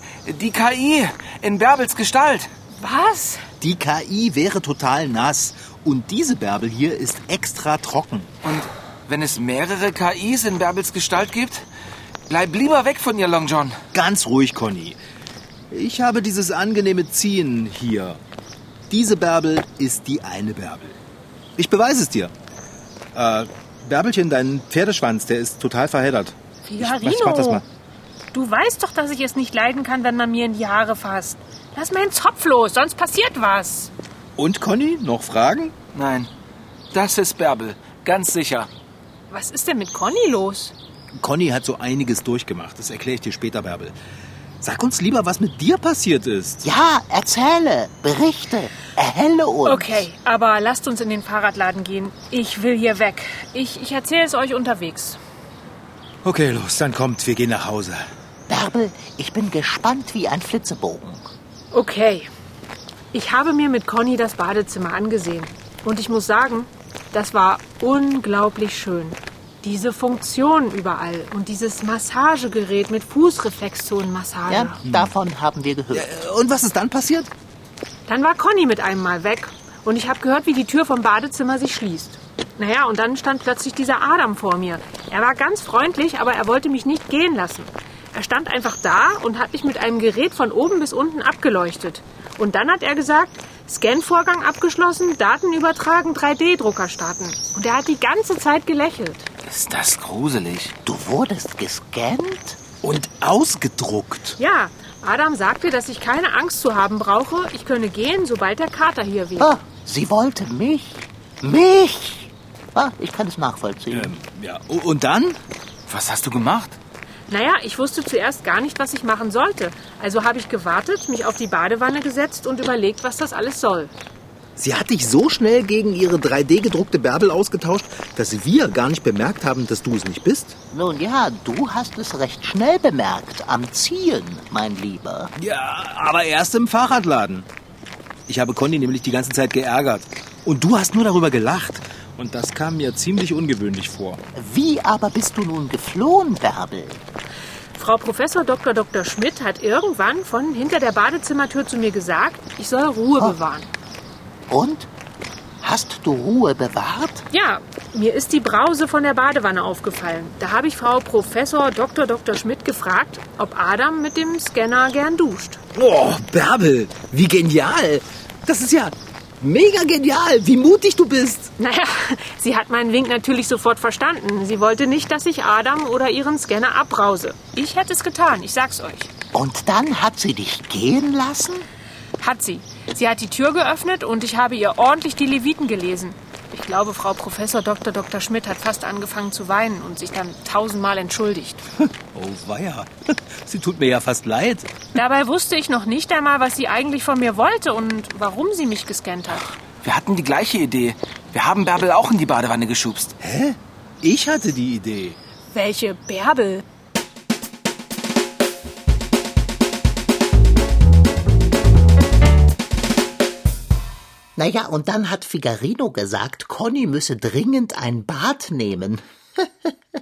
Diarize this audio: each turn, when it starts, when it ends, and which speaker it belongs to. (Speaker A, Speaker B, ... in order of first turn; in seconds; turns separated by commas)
Speaker A: 0.2-2.5, Speaker B: 2.7-3.4, Speaker C: 3.6-8.3, Speaker A: 8.4-11.6, Speaker A: 12.3-13.8, Speaker C: 13.9-15.0, Speaker C: 15.7-18.2, Speaker C: 18.9-21.0, Speaker C: 21.6-22.3, Speaker C: 23.1-27.6, Speaker B: 26.6-27.6, Speaker B: 28.3-33.9, Speaker C: 34.4-35.7, Speaker A: 35.9-36.3, Speaker A: 36.9-38.7, Speaker B: 39.3-40.7, Speaker C: 41.2-43.9, Speaker C: 44.6-46.6, Speaker D: 46.6-50.1, Speaker B: 49.6-55.2, Speaker C: 56.2-58.1, Speaker D: 58.5-61.3, Speaker B: 61.7-62.3, Speaker B: 63.1-74.8, Speaker D: 74.5-76.2, Speaker C: 74.8-75.1, Speaker C: 75.9-77.3, Speaker B: 78.1-99.3, Speaker A: 99.5-100.7, Speaker D: 100.8-102.6, Speaker C: 102.8-104.4, Speaker B: 104.4-109.5, Speaker D: 109.4-114.1, Speaker C: 113.9-115.4, Speaker A: 115.9-116.8, Speaker B: 117.3-123.9, Speaker C: 124.6-130.6, Speaker D: 130.7-135.3, Speaker C: 135.4-137.5, Speaker C: 138.3-144.2, Speaker D: 144.3-147.0, Speaker B: 147.7-153.7, Speaker D: 154.5-154.9, Speaker D: 155.6-157.2, Speaker B: 157.3-165.6, Speaker C: 165.7-171.5, Speaker B: 171.6-179.1, Speaker D: 179.3-181.7, Speaker B: 182.2-191.6, Speaker C: 191.8-194.7, Speaker B: 194.9-199.5, Speaker A: 199.8-203.2, Speaker C: 203.2-205.2, Speaker B: 205.5-206.6, Speaker D: 214.3-219.7